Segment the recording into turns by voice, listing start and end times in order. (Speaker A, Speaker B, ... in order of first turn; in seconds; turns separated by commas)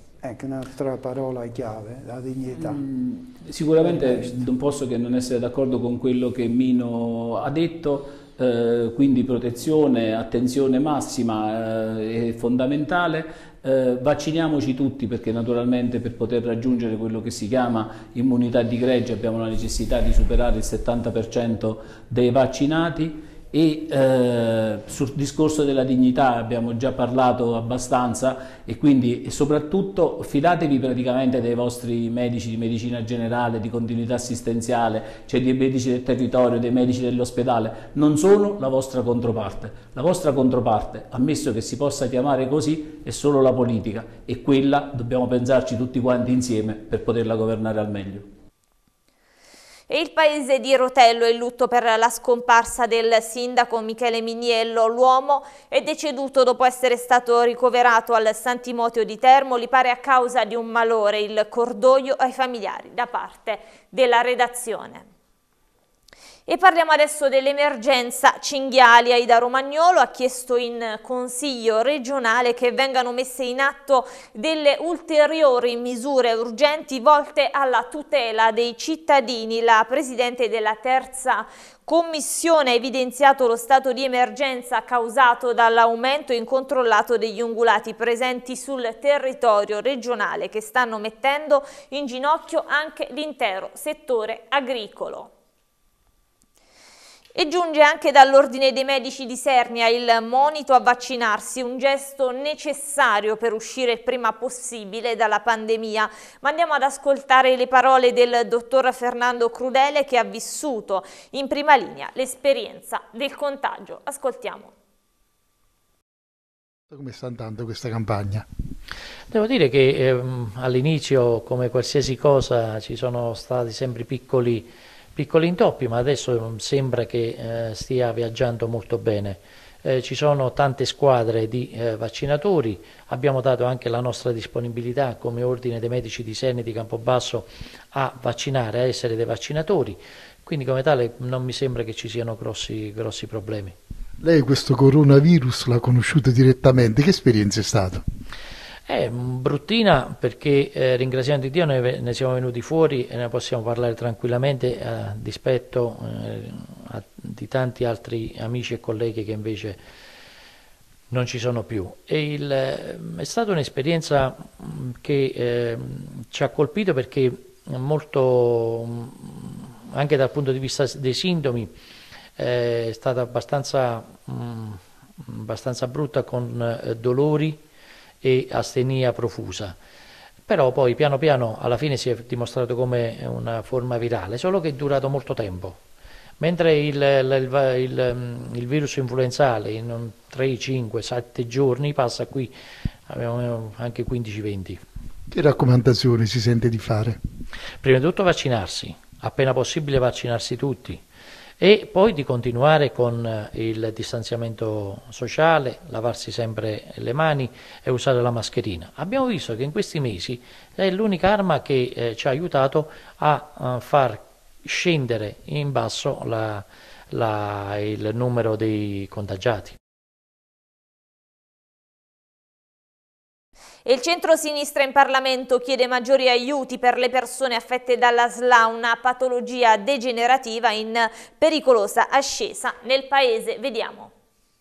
Speaker A: 0.2-2.8, Speaker B: 2.5-48.3, Speaker A: 3.9-4.3, Speaker C: 49.9-65.1, Speaker C: 66.5-95.3, Speaker C: 97.4-114.7, Speaker D: 116.9-118.5, Speaker E: 119.3-143.8, Speaker D: 144.2-148.1, Speaker E: 148.9-159.8, Speaker E: 161.1-171.7, Speaker E: 172.4-177.6, Speaker E: 178.2-179.8, Speaker E: 180.5-185.8, Speaker E: 186.4-192.5, Speaker E: 193.1-194.8, Speaker D: 195.3-197.2, Speaker E: 197.8-201.0, Speaker E: 201.6-219.8, Speaker C: 223.8-234.1